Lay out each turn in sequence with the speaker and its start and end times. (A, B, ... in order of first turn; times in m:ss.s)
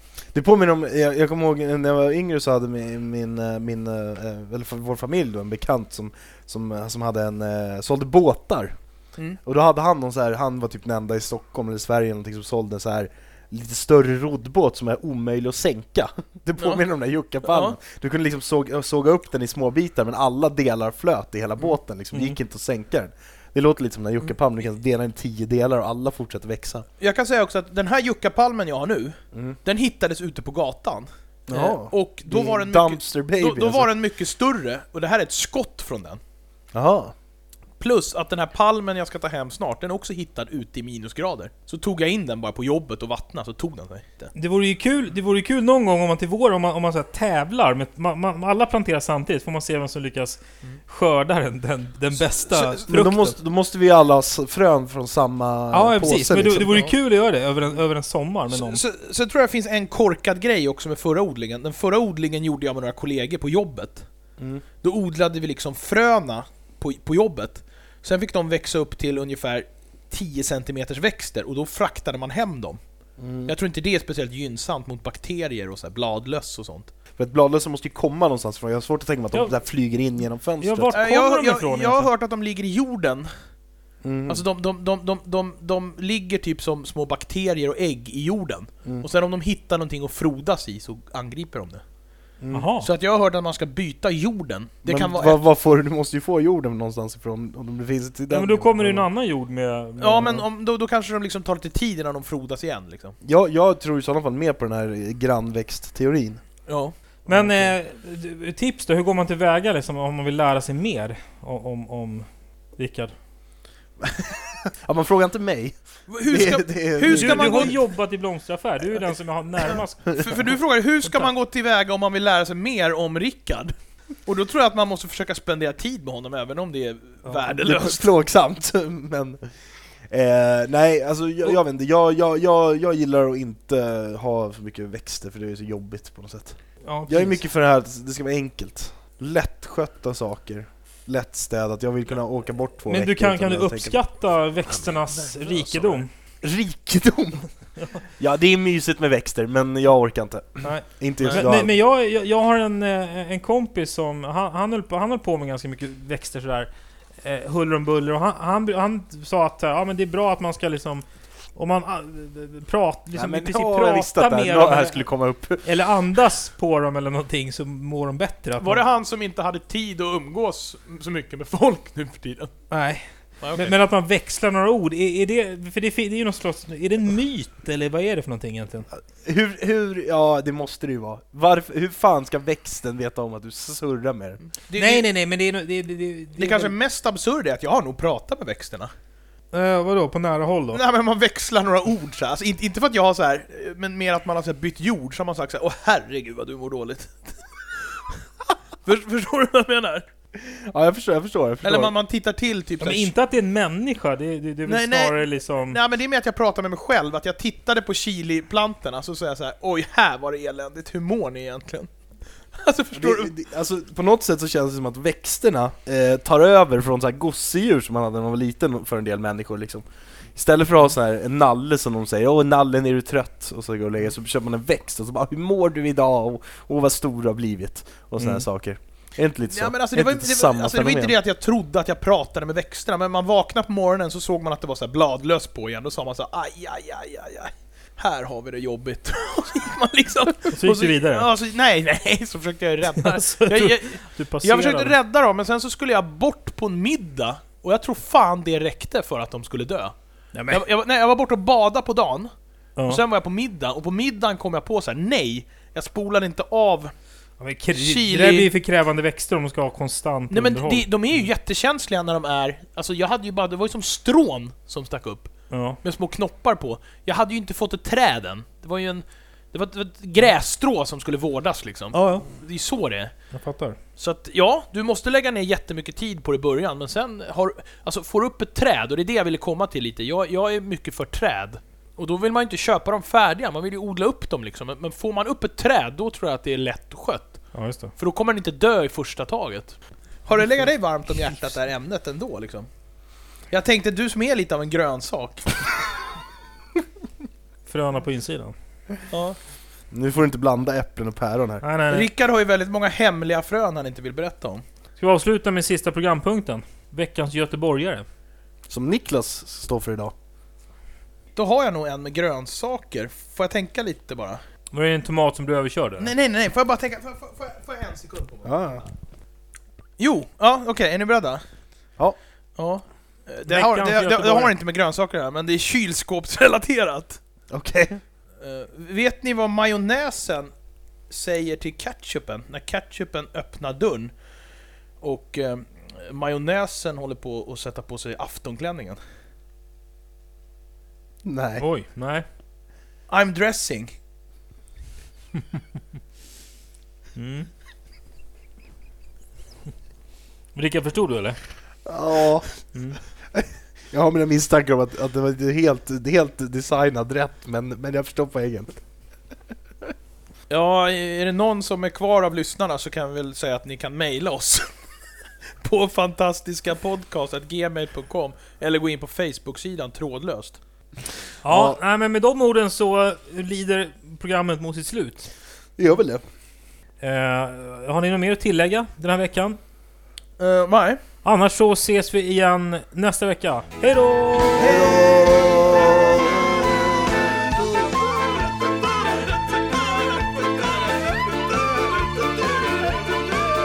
0:00.3-0:08.7 A
0:09.4-0:26.8 A
0:16.6-0:16.8 B
0:17.4-0:17.8 B
0:27.0-0:36.2 B
0:31.5-0:33.9 A
0:36.7-0:37.1 A
0:37.8-0:44.3 B
0:44.3-0:53.4 C
0:52.5-0:52.8 B
0:52.9-0:56.9 A
0:55.7-0:58.8 C
0:58.5-1:04.0 B
1:04.8-1:12.8 B
1:13.2-1:13.5 A
1:13.4-1:16.9 B
1:17.2-1:21.0 A
1:20.6-1:22.1 C
1:20.9-1:23.3 B
1:24.0-1:24.4 A
1:24.3-1:31.8 B
1:32.4-1:32.7 A
1:32.5-1:32.9 C
1:32.8-1:35.4 B
1:34.8-1:39.0 A
1:38.3-1:40.4 C
1:40.0-1:43.2 B
1:43.2-1:46.4 A
1:46.7-1:46.9 B
1:47.3-1:53.1 C
1:47.3-1:47.7 A
1:54.0-1:57.8 A
1:56.1-1:57.8 B
1:57.0-2:00.3 C
2:00.1-2:03.7 B
2:04.2-2:08.1 B
2:07.4-2:09.4 A
2:10.1-2:16.6 A
2:16.8-2:17.4 C
2:17.1-2:24.0 A
2:22.9-2:26.1 C
2:25.2-2:26.0 B
2:26.4-2:27.4 A
2:28.2-2:31.7 A
2:30.6-2:36.7 C
2:31.2-2:31.5 B
2:37.2-2:41.0 C
2:41.6-2:45.0 C
2:43.1-2:45.6 A
2:45.6-2:48.8 C
2:48.6-2:52.5 B
2:52.7-2:58.9 C
2:53.4-2:53.7 B
2:59.1-3:04.4 A
3:04.7-3:05.1 B
3:04.7-3:06.7 C
3:06.4-3:08.9 B
3:09.5-3:10.8 C
3:10.7-3:18.2 B
3:18.8-3:20.0 B
3:20.3-3:21.9 A
3:21.6-3:23.1 B
3:22.8-3:25.8 C
3:24.6-3:31.9 B
3:32.5-3:33.3 B
3:32.9-3:39.8 A
3:40.4-3:51.1 A
3:48.2-3:48.4 C
3:49.5-4:09.9 B
4:00.5-4:01.3 C
4:03.0-4:05.0 C
4:10.3-4:10.6 C
4:10.5-4:12.3 B
4:12.9-4:16.9 B
4:17.4-4:21.2 C
4:17.7-4:18.5 B
4:20.3-4:25.3 B
4:25.5-4:25.8 C
4:25.8-4:33.1 B
4:31.9-4:32.2 C
4:33.3-4:33.8 C
4:34.0-4:47.4 B
4:47.5-4:47.9 C
4:48.0-4:52.7 B
4:53.5-4:55.6 B
4:57.7-4:58.5 C
4:59.1-4:59.4 B
4:59.9-5:01.6 A
5:01.6-5:02.1 C
5:01.9-5:04.6 B
5:05.0-5:08.0 C
5:08.7-5:10.1 A
5:11.4-5:14.4 B
5:14.7-5:16.1 C
5:16.0-5:18.9 B
5:18.4-5:18.8 A
5:20.0-5:21.4 B
5:22.6-5:27.2 B
5:23.5-5:24.5 C
5:27.5-5:28.0 A
5:28.4-5:30.5 B
5:31.1-5:34.1 B
5:35.0-5:39.0 B
5:41.2-5:41.6 A
5:41.6-5:42.2 C
5:43.1-5:43.9 B
5:47.2-5:47.5 C
5:50.5-5:51.4 C
5:51.8-5:52.4 A
5:52.7-5:53.0 C
5:53.3-5:58.8 A
6:00.5-6:04.7 B
6:05.6-6:10.6 B
6:11.4-6:15.3 C
6:11.5-6:11.8 A
6:15.8-6:16.2 A
6:17.0-6:19.6 C
6:20.4-6:21.0 B
6:21.2-6:24.9 C
6:24.6-6:27.5 A
6:24.7-6:25.0 B